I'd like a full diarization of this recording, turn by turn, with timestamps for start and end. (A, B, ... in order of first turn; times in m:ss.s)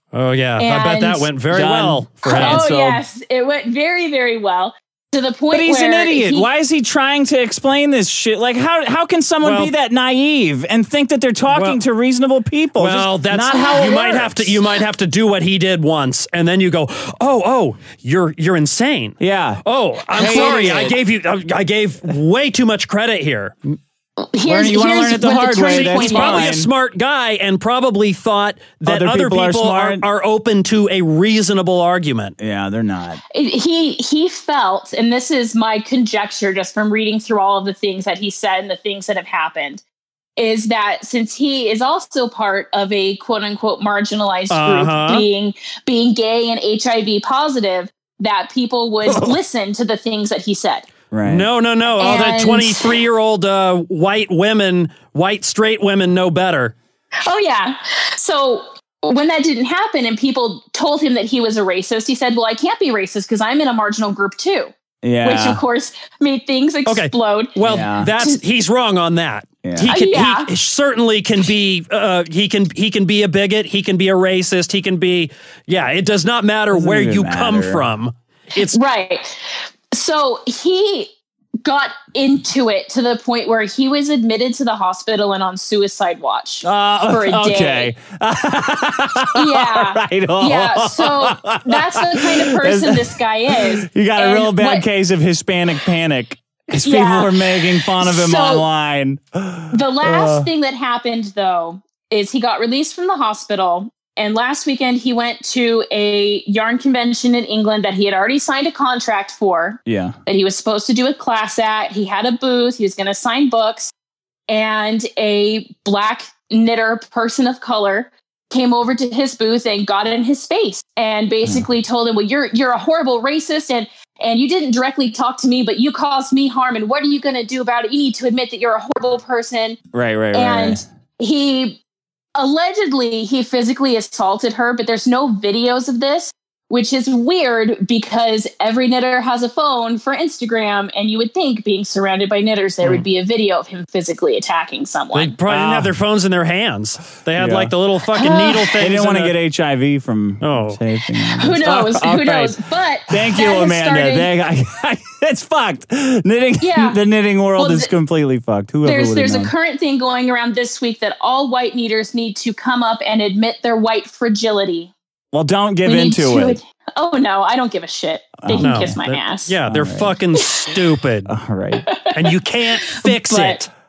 0:00.1-0:02.6 A
0:00.6-0:01.3 B
0:01.5-0:03.0 C
0:02.2-0:06.5 B
0:05.5-0:14.6 C
0:09.4-0:09.7 A
0:11.5-0:11.8 A
0:12.8-0:23.6 A
0:19.2-0:19.6 C
0:20.1-0:21.0 C
0:20.2-0:20.7 B
0:24.2-0:26.5 B
0:24.4-0:26.7 C
0:25.6-0:32.3 A
0:28.8-0:30.0 C
0:32.4-0:33.2 C
0:33.3-0:39.8 B
0:40.4-0:50.9 B
0:44.5-0:45.2 A
0:49.1-0:49.4 C
0:51.1-0:51.5 C
0:51.2-0:56.7 A
0:52.0-0:53.0 B
0:57.2-1:07.6 B
1:05.0-1:05.6 C
1:06.9-1:18.8 A
1:07.6-1:08.1 C
1:09.6-1:09.9 C
1:09.9-1:10.5 B
1:16.7-1:17.9 C
1:18.6-1:21.1 B
1:21.6-1:27.9 B
1:26.6-1:33.1 C
1:29.4-1:34.9 B
1:33.9-1:40.5 C
1:36.8-1:38.6 B
1:39.7-1:53.9 B
1:49.9-1:50.2 C
1:54.5-2:09.8 B
2:01.4-2:01.7 C
2:09.9-2:10.8 C
2:10.3-2:11.8 B
2:12.4-2:25.4 B
2:25.1-2:29.4 A
2:25.5-2:25.9 C
2:27.4-2:27.7 C
2:28.1-2:28.8 B
2:28.8-2:32.6 C
2:30.4-2:30.8 A
2:31.2-2:34.3 B
2:33.1-2:39.5 C
2:36.6-2:37.0 B
2:37.6-2:37.9 B
2:38.8-2:44.9 B
2:45.3-2:46.6 C
2:45.8-2:49.6 B
2:48.4-2:49.0 C
2:48.6-2:51.3 A
2:49.7-2:50.2 C
2:50.4-2:50.7 B
2:51.3-2:51.8 C
2:51.8-2:53.7 B
2:52.1-2:53.7 A